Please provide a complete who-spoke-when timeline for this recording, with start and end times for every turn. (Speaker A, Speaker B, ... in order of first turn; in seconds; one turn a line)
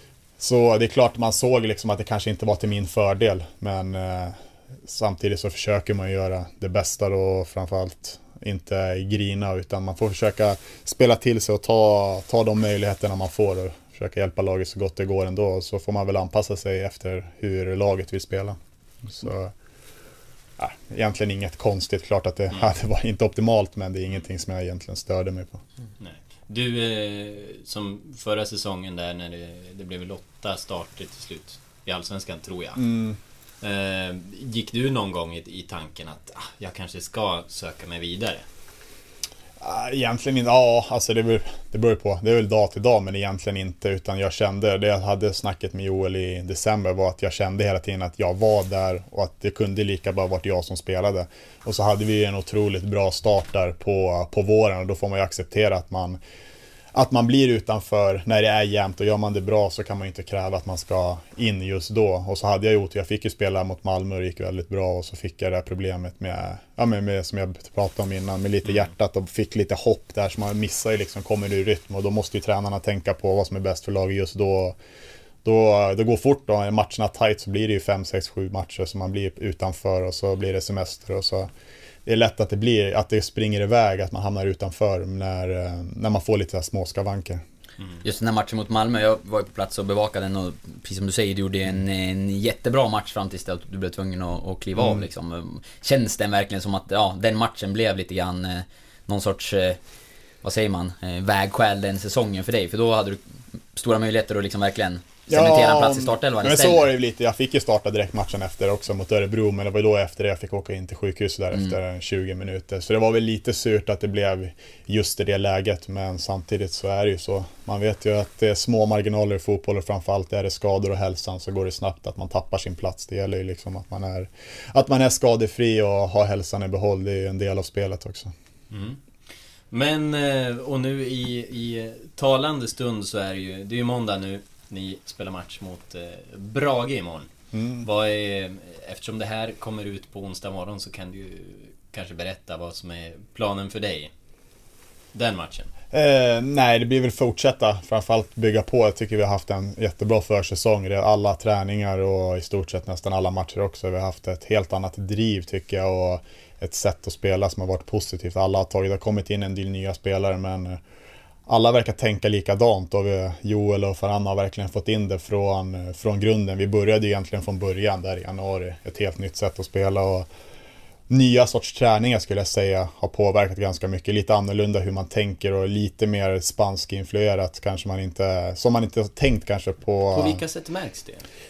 Speaker A: 0.4-19.5
Speaker A: 20.6-25.6
Speaker B: 26.0-32.9
Speaker A: 32.8-33.2
Speaker B: 33.6-38.4
Speaker A: 39.6-56.2
Speaker A: 56.9-74.8
Speaker A: 75.4-81.5
Speaker A: 82.0-87.4
Speaker C: 88.0-99.8
Speaker A: 94.8-95.0
Speaker C: 100.4-103.2
Speaker C: 103.7-106.9
Speaker A: 105.3-128.3
Speaker B: 128.7-129.0
Speaker B: 129.7-137.3
Speaker A: 137.5-137.9
Speaker B: 137.8-144.1
Speaker B: 145.1-145.7
Speaker A: 145.9-160.8
Speaker A: 161.5-170.3
Speaker A: 171.1-180.4
Speaker B: 180.1-181.2